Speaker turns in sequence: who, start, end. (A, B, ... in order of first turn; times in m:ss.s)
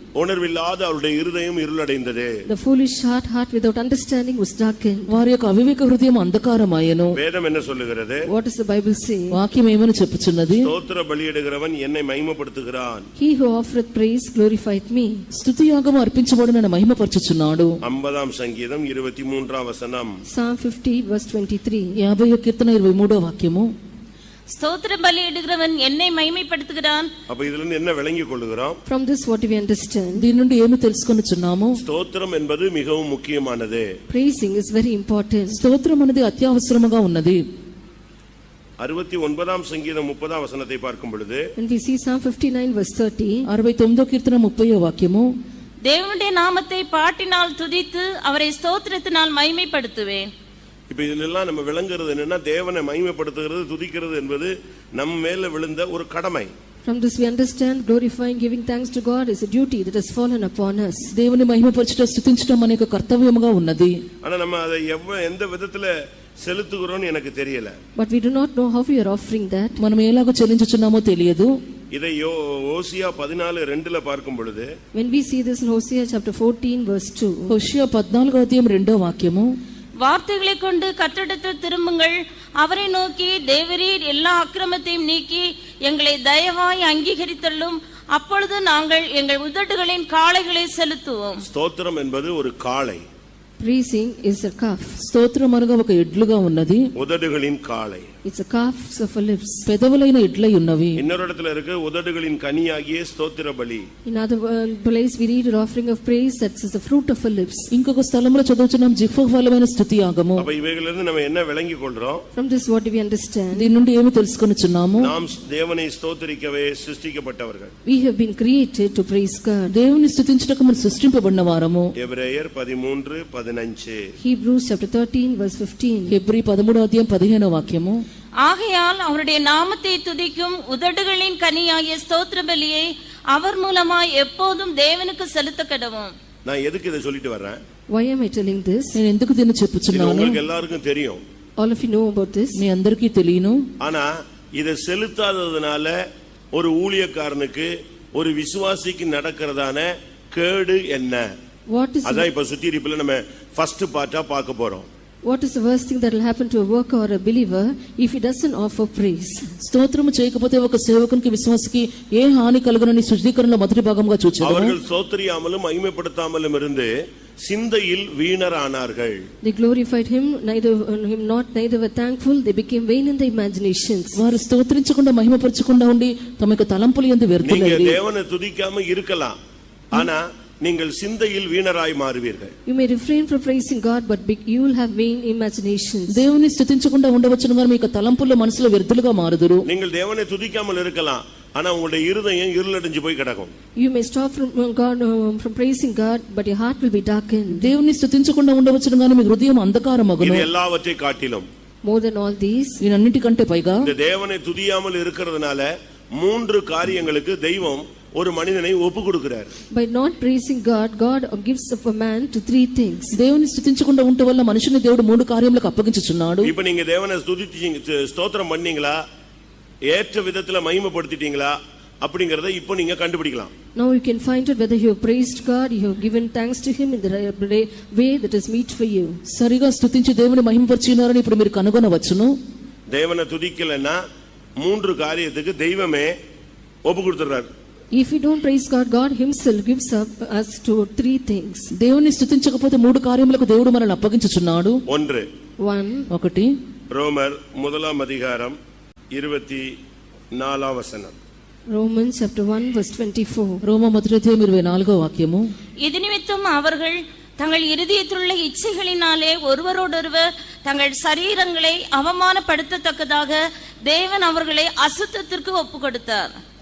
0:00.1-0:02.4 A
0:02.4-0:05.2 B
0:05.1-0:07.2 C
0:07.1-0:08.2 A
0:08.3-0:09.4 B
0:09.3-0:10.7 C
0:10.6-0:13.1 A
0:13.2-0:15.2 B
0:15.3-0:17.8 C
0:17.8-0:20.2 A
0:20.3-0:22.0 B
0:22.0-0:23.7 C
0:24.5-0:27.1 D
0:27.3-0:28.8 A
0:28.8-0:30.3 B
0:30.2-0:31.8 C
0:31.8-0:33.9 A
0:34.1-0:35.6 B
0:35.5-0:37.4 C
0:38.8-0:41.4 A
0:41.6-0:43.5 B
0:43.5-0:45.3 C
0:45.8-0:50.3 D
0:50.9-0:56.5 A
0:56.8-1:01.1 B
1:01.1-1:04.0 C
1:04.2-1:07.8 A
1:08.0-1:09.8 B
1:09.8-1:11.5 C
1:11.9-1:14.7 A
1:14.9-1:17.5 B
1:17.5-1:19.5 C
1:20.0-1:31.4 D
1:31.5-1:33.0 A
1:33.6-1:35.0 B
1:35.0-1:36.8 C
1:37.0-1:38.1 A
1:38.2-1:39.7 B
1:39.6-1:41.0 C
1:41.0-1:43.9 A
1:44.0-1:47.7 B
1:47.7-1:50.4 C
1:50.4-1:52.2 A
1:52.3-1:53.7 B
1:53.5-1:55.1 C
1:55.0-1:57.7 A
1:57.8-1:59.7 B
1:59.7-2:01.9 C
2:02.0-2:04.0 A
2:04.2-2:06.2 B
2:06.1-2:08.0 C
2:08.4-2:16.1 D
2:16.4-2:17.6 A
2:17.9-2:19.0 B
2:18.9-2:20.4 C
2:19.9-2:21.2 A
2:21.6-2:22.6 B
2:22.6-2:23.6 C
2:23.8-2:25.9 A
2:26.5-2:31.3 A
2:31.7-2:32.3 B
2:32.0-2:34.9 A
2:35.2-2:39.4 B
2:39.6-2:44.7 C
2:44.4-2:49.2 A
2:49.4-2:54.2 B
2:54.1-2:58.0 C
2:57.4-2:59.4 A
2:59.9-3:02.5 A
3:02.6-3:06.2 B
3:06.1-3:09.6 C
3:09.6-3:13.5 A
3:13.8-3:17.7 B
3:17.5-3:20.5 C
3:20.2-3:21.5 A
3:21.8-3:22.8 B
3:22.8-3:23.9 C
3:23.8-3:29.6 A
3:29.7-3:33.2 B
3:33.1-3:36.5 C
3:36.4-3:39.0 A
3:39.9-3:43.5 A
3:43.7-3:49.2 B
3:49.3-3:52.3 C
3:52.9-3:54.0 A
3:54.6-3:56.1 A
3:56.8-3:57.5 A
3:57.9-4:01.7 B
4:01.8-4:04.8 C
4:04.9-4:05.3 A
4:05.6-4:06.1 B
4:06.1-4:06.5 C
4:06.9-4:08.6 A
4:09.1-4:09.7 A
4:10.3-4:11.1 A
4:11.7-4:13.6 B
4:13.6-4:15.5 C
4:15.8-4:26.4 D